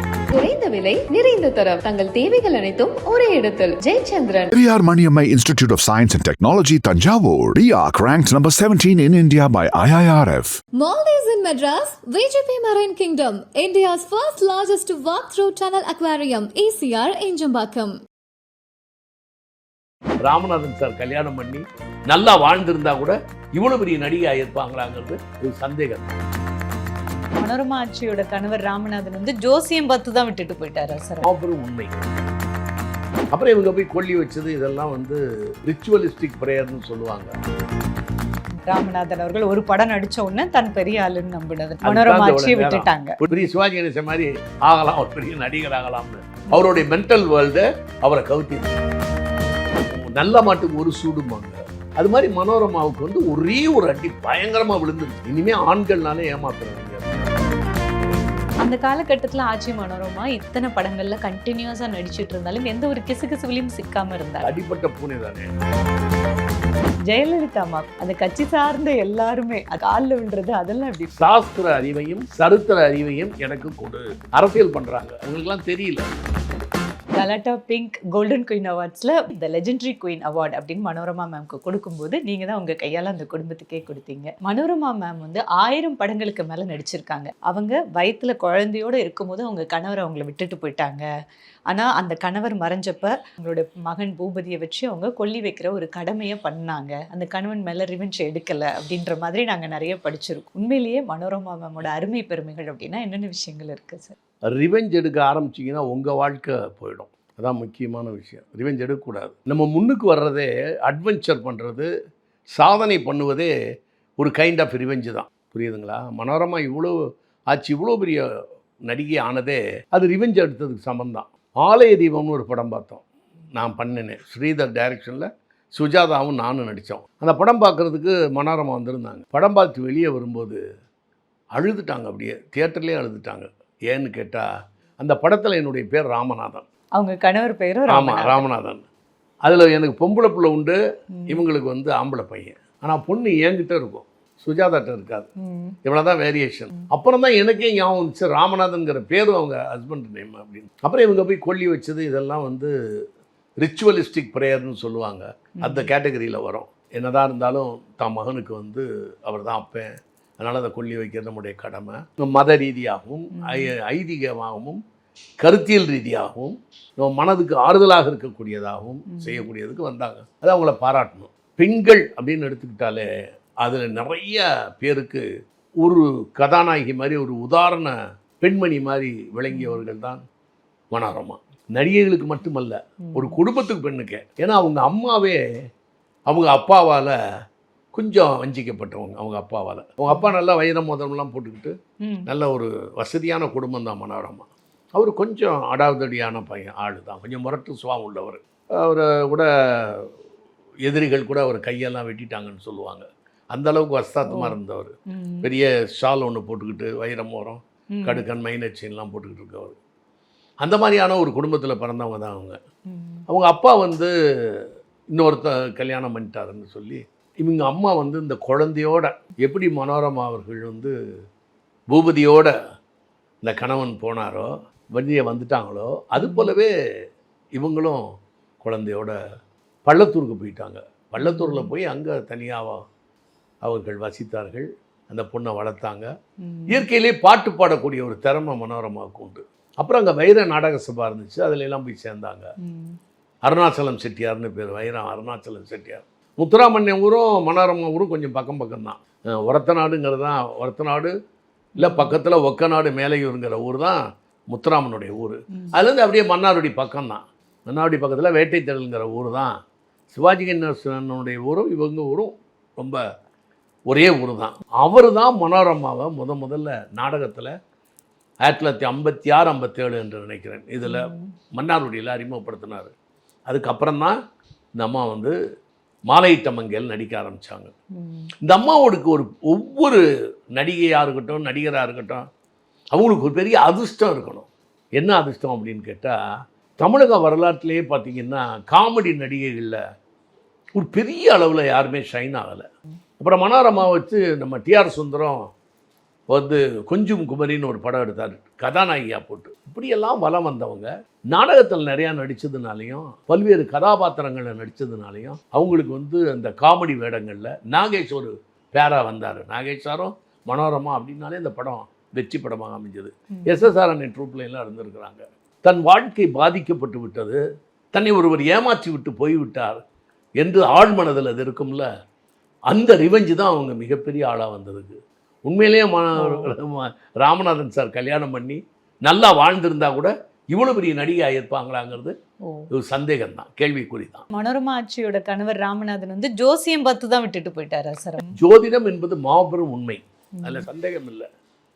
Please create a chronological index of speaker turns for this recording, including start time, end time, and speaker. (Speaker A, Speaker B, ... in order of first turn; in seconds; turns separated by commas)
Speaker A: 0.3-4.5, Speaker B: 4.5-10.6, Speaker C: 10.8-17.9, Speaker D: 20.2-26.1, Speaker E: 27.4-31.3, Speaker D: 31.2-32.0, Speaker D: 33.3-37.3, Speaker E: 38.7-43.1, Speaker D: 41.8-48.8, Speaker D: 49.9-57.3, Speaker E: 58.6-64.5, Speaker D: 64.4-65.5, Speaker E: 67.1-71.1, Speaker D: 71.2-76.1, Speaker E: 77.2-91.0, Speaker E: 91.7-104.2, Speaker D: 104.5-111.9, Speaker D: 112.5-113.5, Speaker D: 114.2-117.0, Speaker D: 117.5-118.2, Speaker D: 118.9-123.0, Speaker D: 123.6-130.6, Speaker D: 131.6-134.5, Speaker D: 135.0-136.7, Speaker E: 137.0-138.4, Speaker D: 137.9-138.8, Speaker D: 139.4-140.8, Speaker E: 141.2-141.4, Speaker D: 141.3-145.3, Speaker E: 145.4-145.8, Speaker D: 145.8-152.7, Speaker D: 153.6-164.8, Speaker E: 163.3-163.7, Speaker D: 165.4-173.1, Speaker E: 169.1-169.4, Speaker D: 173.6-175.2, Speaker D: 175.8-180.2, Speaker E: 179.5-179.8, Speaker D: 180.9-185.4, Speaker E: 183.0-183.4, Speaker D: 186.3-187.1, Speaker D: 187.9-191.7, Speaker D: 192.3-200.1, Speaker D: 200.8-209.8, Speaker E: 204.3-204.6, Speaker E: 205.1-205.5, Speaker E: 207.9-208.2, Speaker D: 210.6-212.6, Speaker E: 212.9-213.2, Speaker D: 213.3-220.9, Speaker D: 221.9-222.5, Speaker D: 223.4-226.7, Speaker E: 226.2-226.6, Speaker D: 227.6-228.0, Speaker D: 228.6-229.2, Speaker D: 229.9-232.8, Speaker E: 231.2-231.7, Speaker D: 233.6-236.1, Speaker E: 236.4-236.9, Speaker D: 236.7-242.5, Speaker E: 242.6-243.0, Speaker D: 243.4-251.1, Speaker D: 251.8-259.5, Speaker E: 251.8-252.2, Speaker D: 260.1-263.0, Speaker D: 263.9-267.5, Speaker D: 268.4-272.9, Speaker E: 270.8-271.3, Speaker D: 273.5-274.1, Speaker D: 274.8-275.3, Speaker D: 276.1-277.7, Speaker E: 278.0-278.3, Speaker D: 278.4-280.0, Speaker D: 280.6-282.3, Speaker D: 282.9-286.2, Speaker D: 286.8-289.8, Speaker D: 290.8-292.7, Speaker D: 293.2-295.5, Speaker D: 296.3-317.4, Speaker E: 313.4-313.7, Speaker D: 317.9-319.8, Speaker D: 320.4-321.9, Speaker D: 322.7-332.1, Speaker E: 326.2-326.5, Speaker D: 332.7-334.3, Speaker E: 334.4-338.4, Speaker D: 338.3-341.3, Speaker E: 340.4-340.7